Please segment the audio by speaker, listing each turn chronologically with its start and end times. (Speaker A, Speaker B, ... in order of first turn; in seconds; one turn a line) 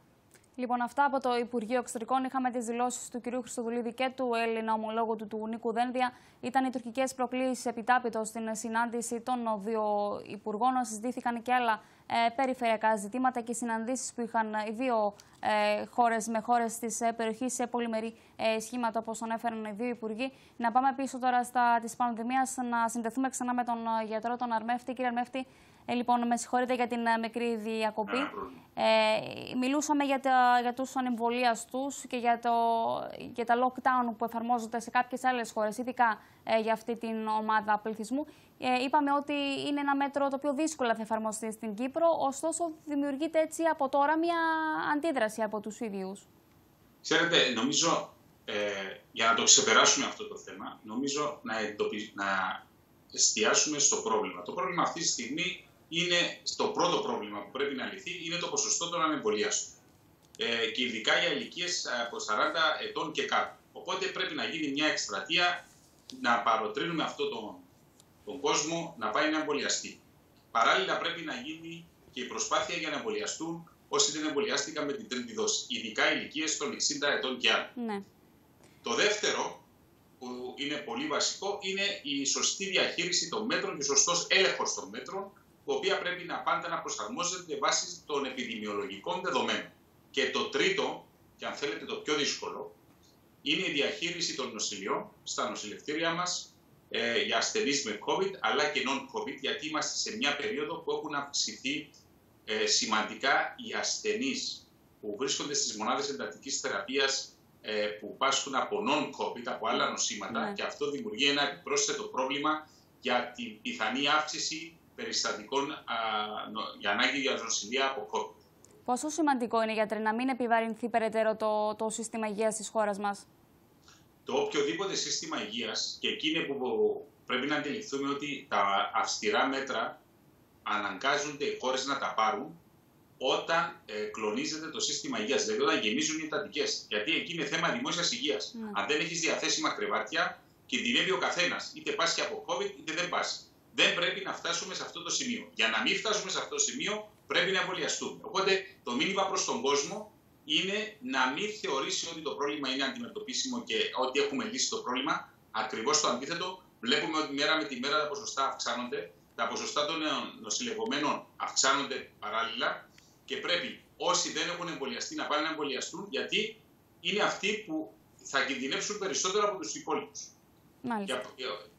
Speaker A: 0.6-46.3
Speaker B: 28.1-28.6
Speaker B: 47.0-59.7
Speaker B: 60.4-67.7
Speaker B: 68.3-70.0
Speaker B: 70.5-77.7
Speaker A: 77.8-78.0
Speaker B: 78.8-79.6
Speaker B: 80.2-92.7
Speaker B: 93.4-101.9
Speaker B: 102.5-118.4
Speaker A: 110.3-110.6
Speaker A: 118.9-123.3
Speaker B: 124.3-130.0
Speaker B: 130.7-132.6
Speaker B: 133.2-170.3
Speaker A: 170.8-171.2
Speaker B: 171.1-171.6